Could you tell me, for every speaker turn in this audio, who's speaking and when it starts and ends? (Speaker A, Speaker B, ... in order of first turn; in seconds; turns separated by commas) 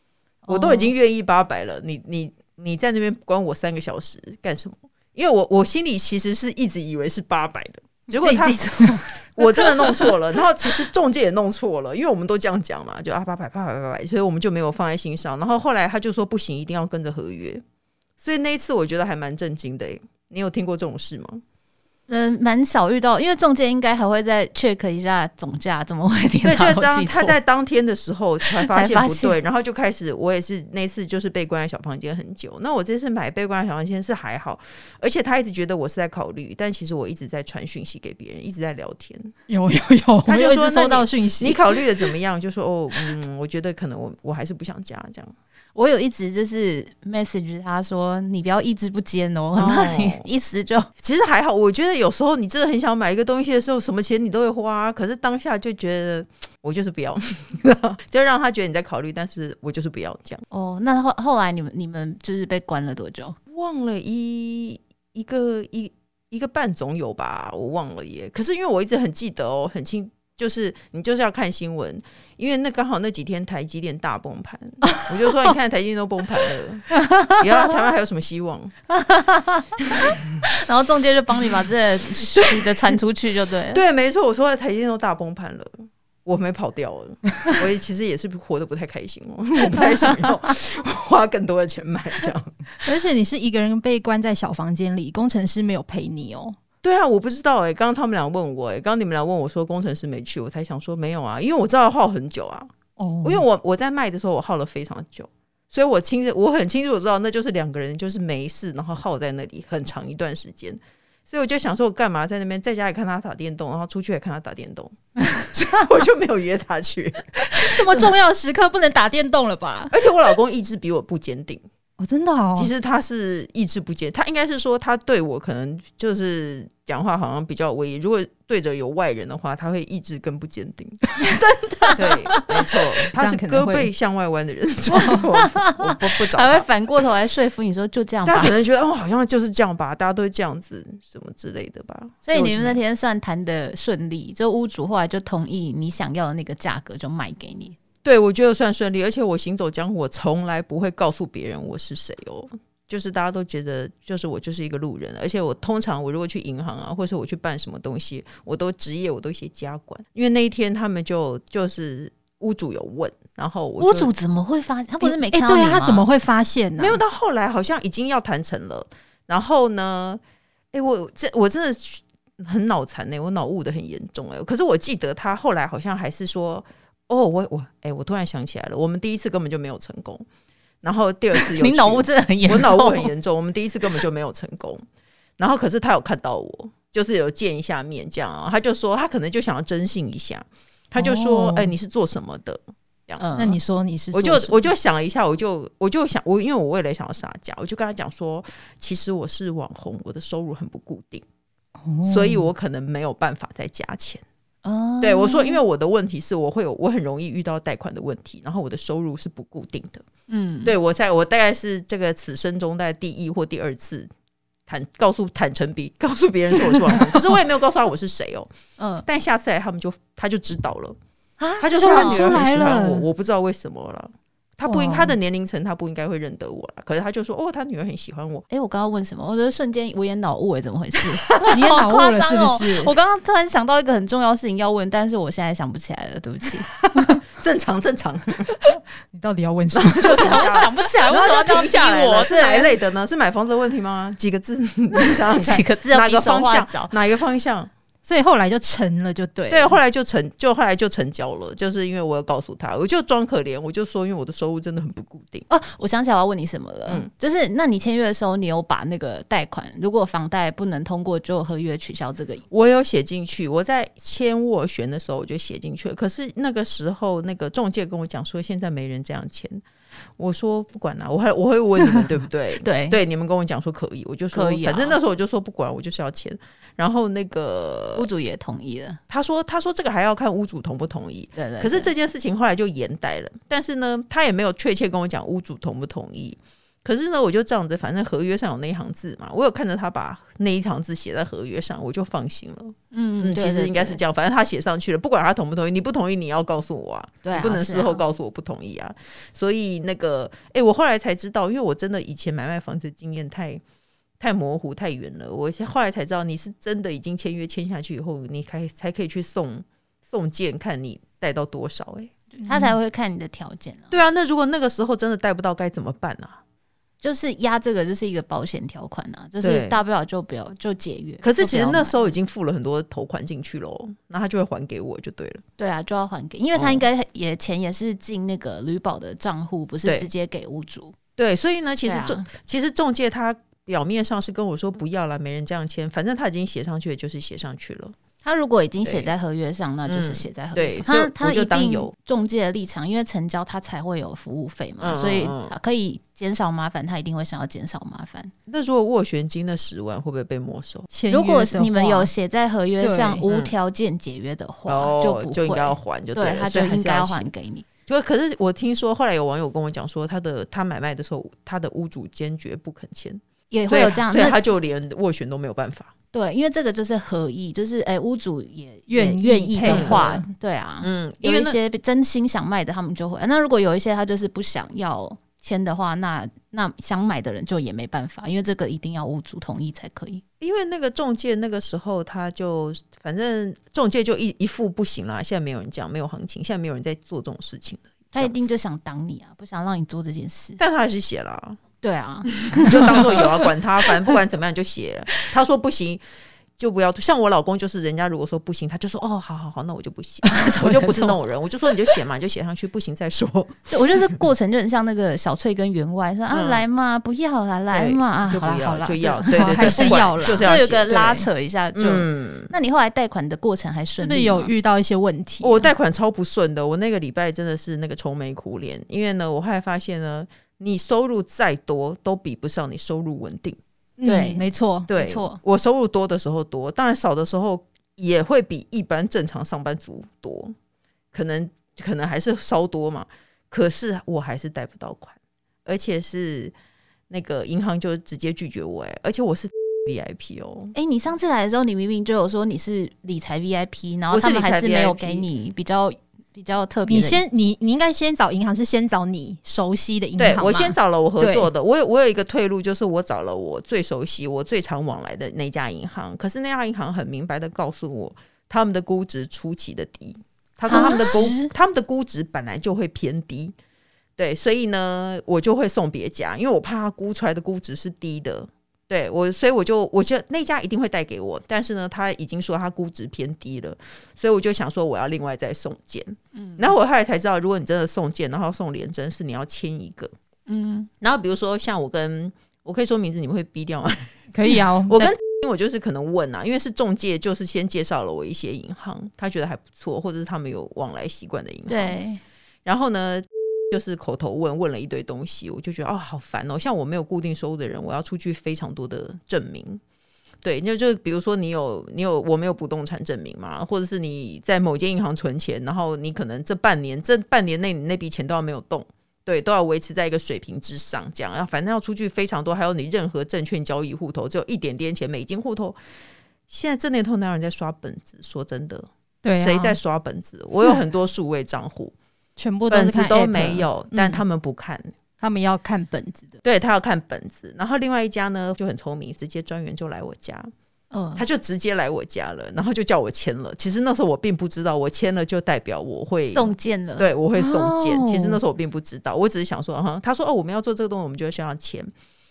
Speaker A: 0.5-0.9, Speaker B: 0.5-17.6, Speaker A: 8.1-10.2, Speaker B: 18.2-21.4, Speaker A: 22.1-27.4, Speaker B: 26.4-39.3, Speaker A: 28.4-29.4, Speaker C: 39.5-41.8, Speaker B: 40.3-45.3, Speaker A: 45.8-50.9, Speaker B: 49.6-50.3, Speaker B: 51.0-60.4, Speaker A: 60.5-63.4, Speaker B: 63.5-78.7, Speaker C: 74.9-75.5, Speaker A: 78.9-83.8, Speaker B: 83.7-92.6, Speaker C: 92.8-96.6, Speaker B: 96.8-102.7, Speaker C: 103.0-103.4, Speaker B: 103.2-117.7, Speaker C: 117.5-120.0, Speaker B: 119.9-121.6, Speaker C: 122.0-122.7, Speaker B: 122.5-131.0, Speaker C: 131.2-133.9, Speaker B: 132.0-136.7, Speaker A: 135.0-138.6, Speaker B: 138.3-142.8, Speaker A: 142.2-147.8, Speaker B: 148.0-164.1, Speaker A: 163.8-166.1, Speaker C: 165.0-167.0, Speaker B: 166.8-170.2, Speaker B: 170.7-180.2, Speaker B: 180.8-184.8, Speaker A: 181.3-183.1, Speaker B: 185.4-193.3, Speaker C: 191.0-191.7, Speaker A: 193.2-193.6, Speaker C: 193.3-194.7, Speaker B: 194.1-201.2, Speaker C: 201.8-202.5, Speaker B: 202.0-204.2, Speaker A: 204.6-205.6, Speaker B: 205.0-210.0, Speaker A: 210.3-210.8, Speaker B: 210.7-214.1, Speaker B: 214.7-218.5, Speaker A: 218.8-219.1, Speaker B: 219.1-221.0, Speaker A: 221.4-222.3, Speaker B: 221.6-228.4, Speaker C: 221.7-223.1, Speaker C: 224.6-225.2, Speaker A: 228.5-236.8, Speaker C: 231.5-232.9, Speaker B: 237.2-238.5, Speaker C: 239.1-240.7, Speaker B: 239.7-247.7, Speaker A: 240.0-242.7, Speaker A: 245.3-246.9, Speaker C: 248.0-249.8, Speaker B: 249.5-255.5, Speaker A: 255.5-262.4, Speaker B: 262.5-269.6, Speaker B: 270.2-278.1, Speaker A: 272.6-273.0, Speaker A: 274.3-275.0, Speaker A: 277.9-279.0, Speaker B: 279.1-303.6, Speaker A: 281.4-281.9, Speaker A: 292.9-294.0, Speaker A: 297.2-298.0, Speaker B: 304.2-312.1, Speaker A: 312.4-313.9, Speaker C: 312.4-312.8, Speaker B: 313.9-316.4, Speaker A: 317.0-322.1, Speaker B: 319.4-319.8, Speaker B: 321.2-325.4, Speaker A: 325.6-330.9, Speaker B: 326.6-326.9, Speaker B: 331.2-337.9, Speaker A: 331.9-332.3, Speaker A: 338.2-348.3, Speaker B: 338.8-339.1, Speaker B: 339.9-341.9, Speaker B: 344.8-345.6, Speaker B: 348.5-350.9, Speaker C: 350.9-352.1, Speaker A: 351.1-357.6, Speaker C: 352.8-353.3, Speaker B: 353.3-353.6, Speaker B: 354.7-357.3, Speaker B: 357.9-365.9, Speaker A: 363.5-364.6, Speaker A: 366.1-380.2, Speaker C: 368.9-370.3, Speaker B: 369.6-370.2, Speaker B: 370.8-371.6, Speaker B: 380.4-388.4, Speaker A: 388.1-390.6, Speaker B: 390.6-391.6, Speaker A: 391.8-393.5, Speaker B: 392.5-396.0, Speaker B: 396.6-404.0, Speaker A: 400.3-401.2, Speaker A: 403.7-414.5, Speaker B: 406.3-406.6, Speaker B: 407.7-411.1, Speaker C: 409.0-411.3, Speaker B: 411.8-412.5, Speaker C: 414.0-415.7, Speaker B: 415.4-423.6, Speaker C: 424.0-424.9, Speaker A: 424.1-424.4, Speaker B: 424.9-430.5, Speaker A: 425.0-425.4, Speaker B: 431.1-436.5, Speaker B: 437.1-440.8, Speaker A: 440.8-447.2, Speaker B: 444.1-445.3, Speaker C: 446.8-451.5, Speaker B: 450.2-463.5, Speaker C: 460.7-461.5, Speaker B: 464.2-480.1, Speaker A: 476.4-476.7, Speaker A: 480.5-480.9, Speaker B: 481.0-484.3, Speaker C: 484.3-485.2, Speaker B: 484.8-492.0, Speaker A: 491.7-492.2, Speaker B: 492.6-499.8, Speaker B: 500.4-515.8, Speaker B: 516.5-521.9, Speaker C: 519.2-519.8, Speaker C: 522.4-524.2, Speaker B: 522.7-524.9, Speaker C: 525.2-526.4, Speaker B: 526.4-530.5, Speaker A: 530.9-531.3, Speaker B: 531.2-541.9, Speaker A: 536.3-537.1, Speaker C: 537.3-538.4